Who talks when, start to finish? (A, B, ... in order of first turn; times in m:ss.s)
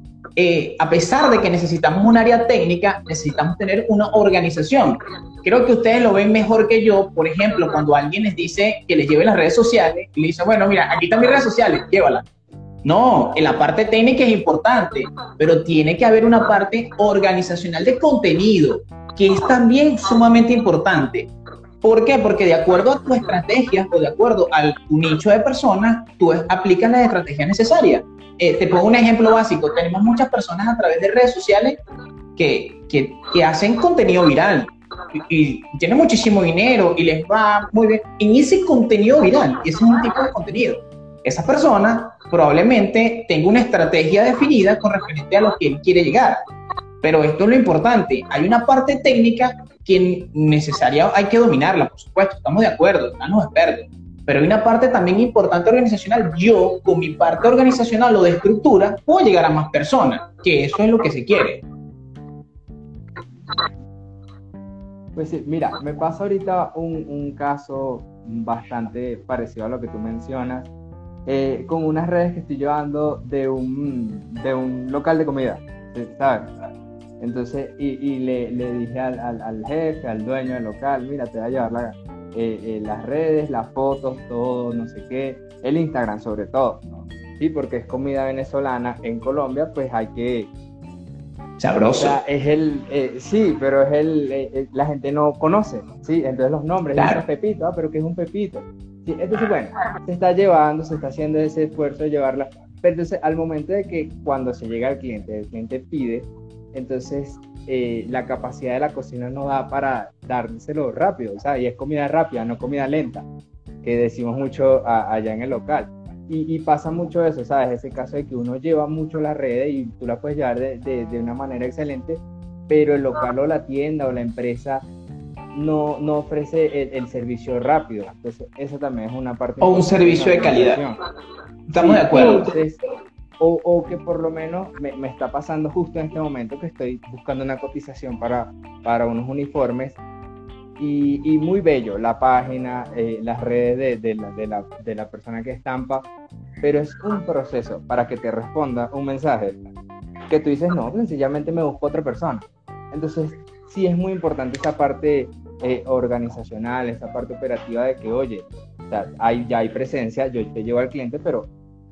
0:00.4-0:12.2 A
0:12.8-0:21.3 A
0:21.8-0:31.8 A
0:32.4-0:46.4 A
0:47.0-1:01.6 A
1:05.2-1:10.7 B
1:11.2-1:16.5 B
1:17.2-1:30.5 B
1:31.6-1:32.2 A
1:32.0-1:53.2 B
1:37.0-1:37.2 A
1:53.8-2:04.8 B
2:05.5-2:11.0 B
2:09.6-2:10.8 A
2:11.7-2:12.6 A
2:11.7-2:12.8 B
2:13.4-2:20.0 B
2:20.8-2:26.1 B
2:26.6-2:29.6 B
2:30.3-2:41.5 B